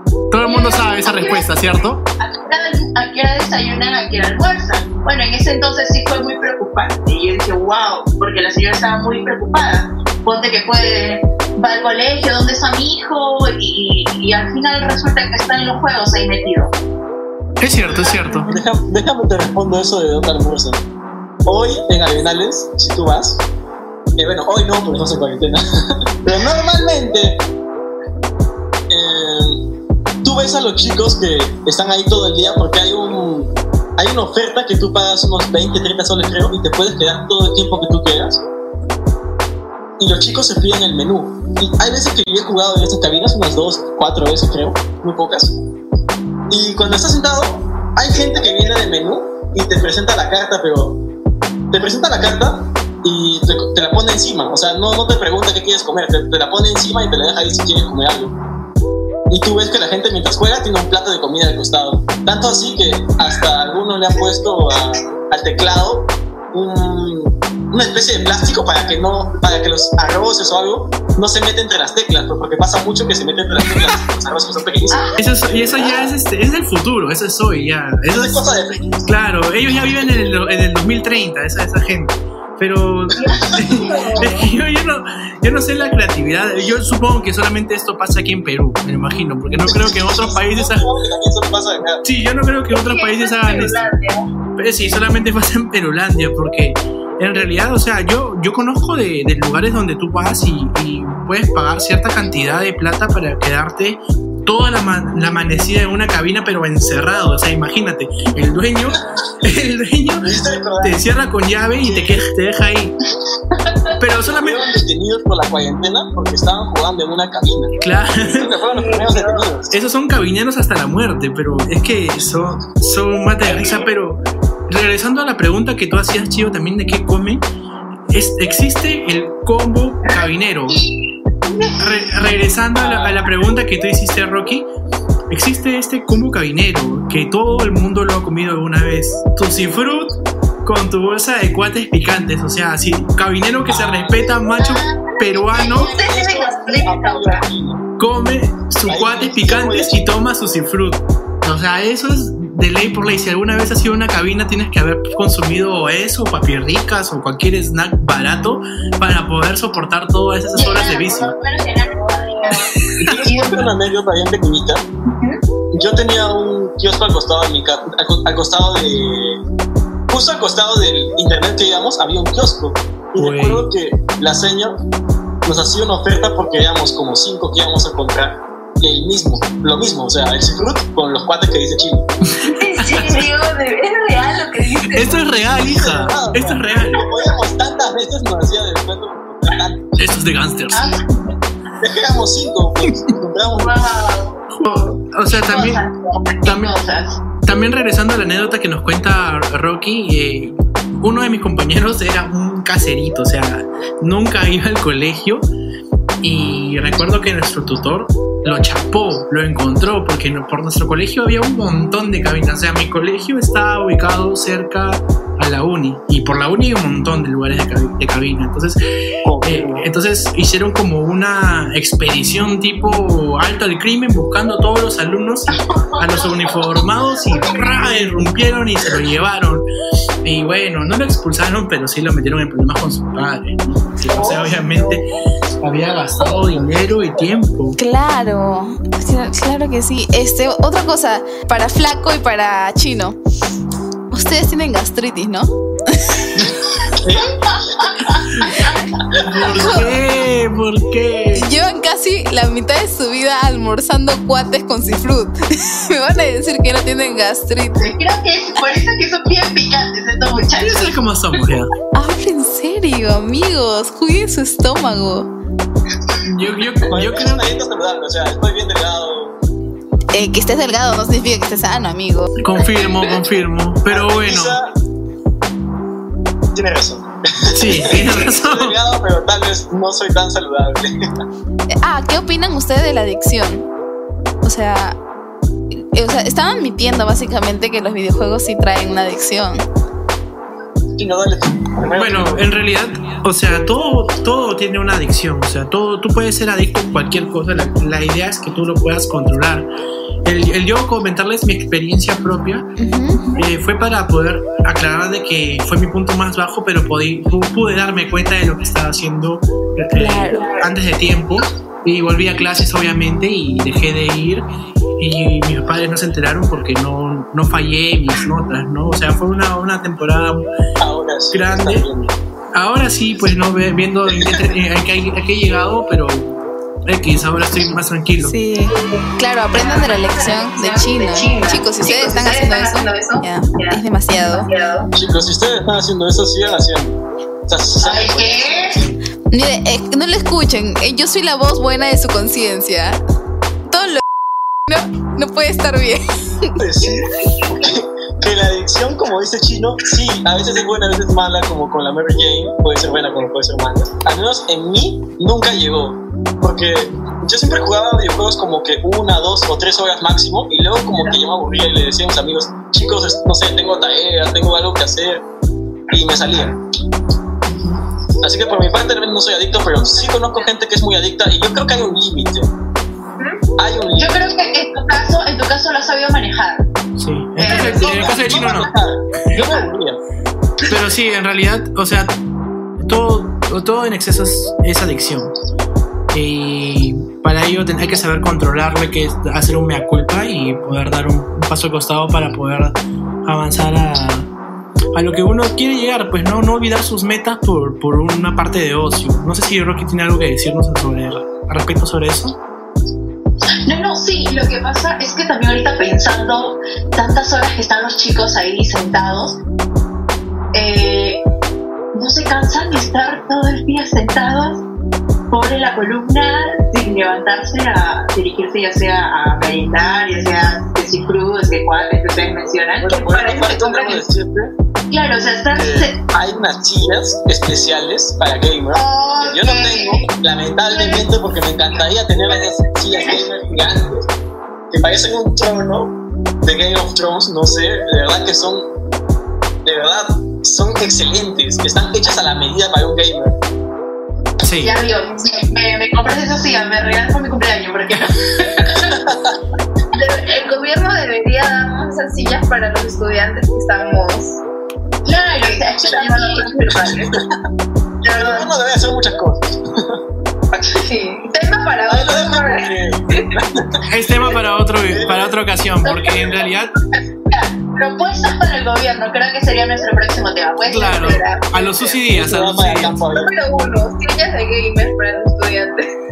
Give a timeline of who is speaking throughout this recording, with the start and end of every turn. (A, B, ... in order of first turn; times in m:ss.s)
0:00.3-0:02.0 A
0:00.4-0:16.8 B
0:17.6-0:18.5 A
0:18.4-0:20.8 C
0:21.5-0:23.4 C
0:24.2-0:25.6 C
0:26.2-0:27.4 C
0:28.9-0:29.6 C
0:30.2-0:38.5 C
0:40.0-0:45.6 C
0:46.5-0:51.0 C
0:51.7-0:58.4 C
0:59.3-1:16.2 C
1:13.7-1:14.0 A
1:14.9-1:15.2 B
1:15.2-1:30.9 A
1:18.1-1:19.1 C
1:19.7-1:20.1 C
1:23.1-1:23.6 C
1:23.4-1:24.3 B
1:23.9-1:24.4 D
1:29.7-1:32.0 C
1:32.0-1:33.9 A
1:32.7-1:34.2 D
1:34.6-1:53.0 A
1:50.2-1:51.0 C
1:51.8-1:52.2 C
1:54.0-1:54.6 A
1:54.1-1:59.7 C
1:57.8-1:58.5 A
1:58.8-1:59.5 D
1:59.7-2:07.4 A
2:08.1-2:10.8 A
2:10.1-2:11.9 B
2:11.8-2:14.7 A
2:12.8-2:13.2 C
2:15.3-2:25.9 A
2:23.7-2:24.2 C
2:24.6-2:27.5 B
2:25.9-2:27.8 C
2:28.0-2:41.4 A
2:28.9-2:30.0 C
2:40.5-2:43.7 B
2:42.8-2:43.2 A
2:43.0-2:44.9 C
2:45.7-2:49.4 C
2:50.1-2:54.8 C
2:53.2-2:53.7 A
2:55.4-3:02.1 C
3:02.6-3:05.5 D
3:02.8-3:03.3 A
3:04.7-3:07.1 A
3:05.6-3:10.0 C
3:10.0-3:10.9 A
3:10.7-3:11.3 B
3:11.8-3:13.9 C
3:13.6-3:17.2 B
3:14.5-3:15.8 A
3:16.5-3:16.7 A
3:17.4-3:25.5 A
3:26.2-3:38.8 A
3:39.2-3:39.9 C
3:39.4-3:49.7 A
3:45.7-3:47.9 B
3:50.2-3:55.0 A
3:54.1-3:55.0 B
3:55.6-3:57.8 A
3:56.2-3:56.9 B
3:57.8-4:03.2 E
4:04.1-4:06.3 E
4:07.0-4:07.9 C
4:08.1-4:08.8 B
4:09.1-4:09.9 C
4:09.2-4:11.5 A
4:09.6-4:09.9 E
4:11.3-4:17.9 E
4:17.8-4:21.0 B
4:20.6-4:21.7 A
4:21.9-4:25.3 E
4:26.2-4:27.6 A
4:26.9-4:29.4 C
4:30.1-4:32.3 E
4:32.4-4:34.6 A
4:33.9-4:34.7 C
4:36.5-4:40.9 C
4:37.5-4:38.8 A
4:41.8-4:43.7 E
4:44.4-4:45.0 E
4:45.9-4:49.6 E
4:51.0-4:52.5 C
4:51.9-4:59.7 A
5:00.2-5:02.7 A
5:02.8-5:03.2 E
5:03.4-5:14.4 A
5:09.9-5:10.5 E
5:10.3-5:10.7 B
5:15.0-5:20.4 A
5:20.8-5:22.2 C
5:21.3-5:21.9 A
5:22.5-5:28.4 A
5:24.1-5:24.5 C
5:28.2-5:34.5 E
5:29.5-5:34.9 D
5:29.6-5:31.6 B
5:34.9-5:37.0 C
5:37.5-5:38.9 C
5:37.8-5:38.8 B
5:39.3-5:43.0 E
5:43.7-5:44.0 E
5:44.7-5:46.6 E
5:46.6-6:05.2 C
6:05.9-6:06.6 C
6:08.2-6:12.5 C
6:09.9-6:10.5 B
6:13.6-6:14.2 C
6:13.9-6:16.7 B
6:17.0-6:18.7 A
6:17.4-6:18.5 B
6:17.4-6:20.0 C
6:20.7-6:22.1 A
6:22.8-6:25.3 A
6:26.1-6:34.3 A
6:34.9-6:42.4 A
6:43.7-6:49.4 B
6:50.5-6:51.2 B
6:51.9-6:54.6 B
6:55.3-7:04.1 B
7:02.8-7:04.5 C
7:04.9-7:06.0 B
7:05.5-7:14.1 C
7:08.7-7:10.1 B
7:10.6-7:11.1 B
7:11.7-7:13.3 B
7:14.7-7:18.7 C
7:19.6-7:23.4 C
7:24.4-7:24.8 A
7:24.6-7:28.9 B
7:28.9-7:29.4 C
7:30.0-7:34.4 D
7:35.1-7:37.0 B
7:35.4-7:37.1 D
7:36.7-7:37.3 C
7:38.0-7:40.0 C
7:38.1-7:38.5 D
7:40.8-7:42.7 D
7:41.8-7:43.8 C
7:43.9-7:46.7 A
7:44.8-7:45.3 C
7:45.8-7:46.5 B
7:47.3-7:52.1 B
7:50.6-7:53.0 A
7:52.1-7:53.4 C
7:53.1-7:55.9 D